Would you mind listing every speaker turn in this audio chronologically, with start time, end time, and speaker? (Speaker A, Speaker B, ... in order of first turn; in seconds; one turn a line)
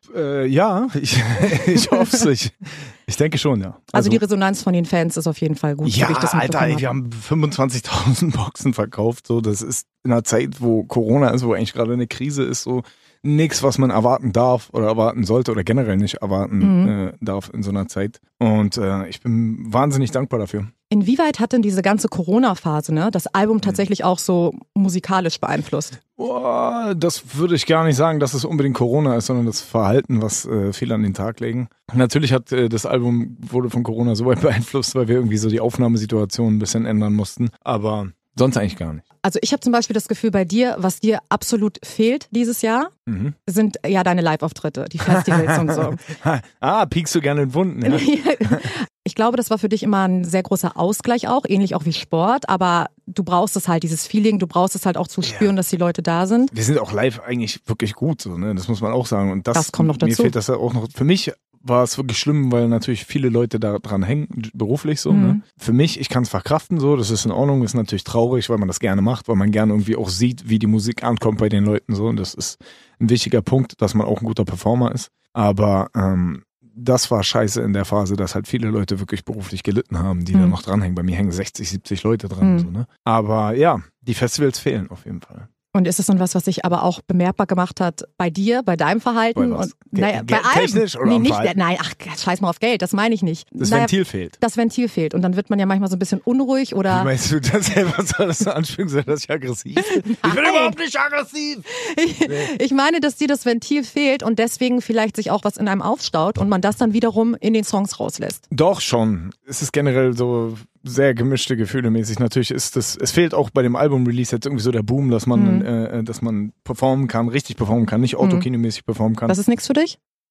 Speaker A: 0.1-4.2
Speaker B: 3.9-7.0
Speaker A: 5.8-20.7
Speaker B: 16.6-16.9
Speaker B: 20.9-26.0
Speaker A: 26.1-39.0
Speaker B: 39.2-42.9
Speaker A: 43.1-43.4
Speaker B: 43.5-46.0
Speaker A: 45.0-48.7
Speaker B: 47.8-56.5
Speaker A: 55.2-55.5
Speaker A: 56.5-85.5
Speaker B: 59.5-60.3
Speaker B: 65.1-65.4
Speaker B: 82.4-82.7
Speaker B: 85.7-97.1
Speaker A: 89.3-91.5
Speaker A: 93.6-94.4
Speaker A: 96.9-101.7
Speaker B: 100.0-100.8
Speaker B: 101.7-108.4
Speaker A: 102.2-102.5
Speaker A: 108.5-119.4
Speaker B: 115.3-115.7
Speaker B: 118.2-118.5
Speaker B: 119.3-120.0